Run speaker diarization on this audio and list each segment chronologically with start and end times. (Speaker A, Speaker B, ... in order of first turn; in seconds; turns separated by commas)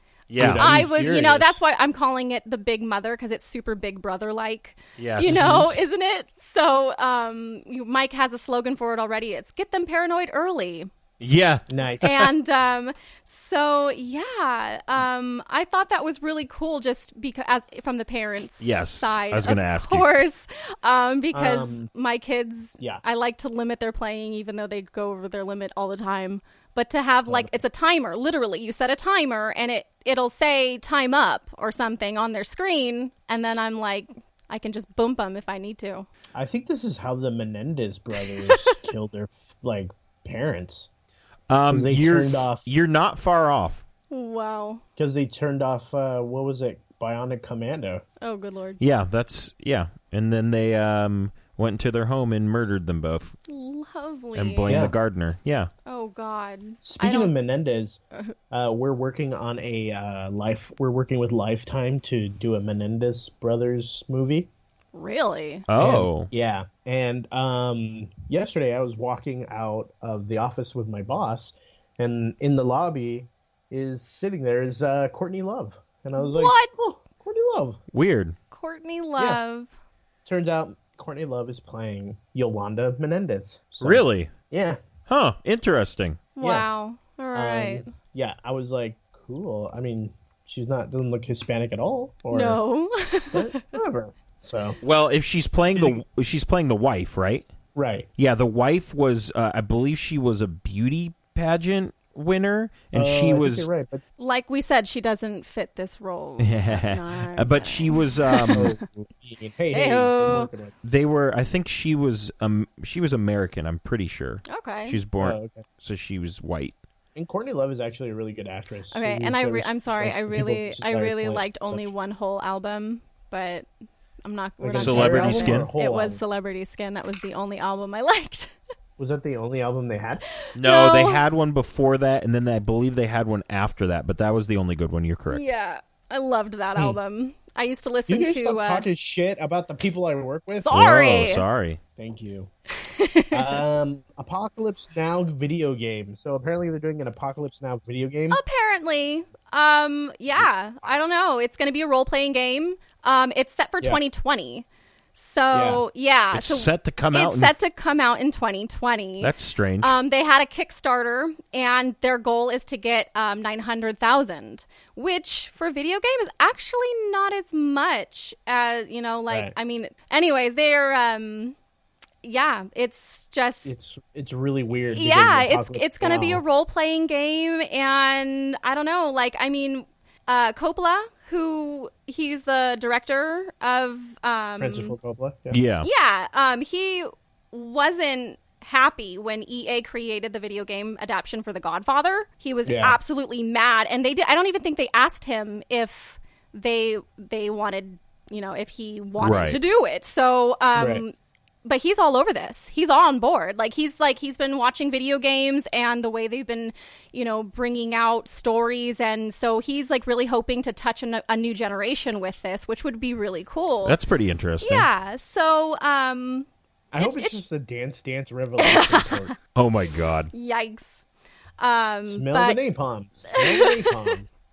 Speaker A: 0.3-0.6, Speaker B: 0.4-1.6, Speaker C: 0.4-10.9, Speaker A: 5.0-5.7, Speaker B: 5.2-5.7, Speaker A: 11.2-12.3, Speaker B: 11.7-12.1, Speaker C: 12.0-36.1, Speaker A: 18.6-20.1, Speaker B: 21.3-21.9, Speaker B: 27.3-27.5, Speaker B: 36.3-40.9, Speaker C: 38.4-38.8, Speaker A: 41.5-43.8, Speaker B: 41.7-42.6, Speaker C: 44.1-44.8, Speaker B: 45.0-48.0, Speaker C: 48.2-48.8, Speaker A: 48.8-53.3, Speaker C: 53.5-54.7, Speaker A: 54.3-55.7, Speaker B: 54.7-54.9, Speaker C: 55.9-57.3, Speaker B: 56.8-64.5, Speaker C: 64.9-65.7, Speaker A: 65.7-66.3, Speaker B: 65.8-77.8, Speaker C: 76.2-76.7, Speaker A: 77.9-78.3, Speaker C: 78.5-79.7, Speaker B: 80.2-84.8, Speaker A: 83.8-84.3, Speaker A: 85.1-86.2, Speaker C: 86.4-87.9, Speaker B: 86.4-86.7, Speaker B: 87.3-92.6, Speaker C: 92.3-93.7, Speaker B: 93.3-94.8, Speaker A: 94.8-97.5, Speaker B: 95.7-96.0, Speaker B: 97.7-98.1, Speaker A: 98.2-103.7, Speaker B: 102.9-104.0, Speaker C: 104.2-108.7, Speaker A: 106.4-108.7, Speaker B: 108.5-110.7, Speaker C: 109.7-110.5, Speaker A: 110.8-116.7, Speaker C: 114.5-115.0, Speaker B: 115.2-115.7, Speaker B: 117.1-121.9, Speaker C: 118.9-123.7, Speaker C: 124.2-128.5, Speaker B: 124.6-126.2, Speaker A: 124.8-125.7, Speaker B: 129.0-130.2, Speaker C: 130.5-131.2, Speaker A: 130.5-135.4, Speaker C: 135.3-138.8, Speaker B: 138.1-140.8, Speaker C: 140.5-141.4, Speaker A: 140.7-141.8, Speaker B: 142.0-142.5, Speaker C: 142.8-143.6, Speaker B: 143.3-148.4, Speaker C: 148.3-171.5, Speaker B: 150.3-150.9, Speaker B: 155.5-155.8, Speaker A: 156.3-157.5, Speaker A: 159.2-159.9, Speaker C: 172.2-173.7, Speaker B: 173.6-176.4, Speaker C: 174.9-184.9, Speaker B: 184.6-185.6, Speaker A: 185.5-185.9, Speaker C: 185.8-201.1, Speaker B: 192.7-193.0, Speaker A: 199.2-199.6, Speaker B: 200.7-201.0, Speaker C: 201.6-214.0, Speaker A: 213.8-214.9, Speaker C: 214.6-216.5, Speaker B: 216.9-219.3, Speaker C: 217.0-217.4, Speaker C: 218.6-219.3, Speaker A: 219.5-220.3, Speaker C: 220.3-221.0, Speaker C: 221.6-222.6, Speaker B: 222.1-224.3, Speaker C: 223.3-224.1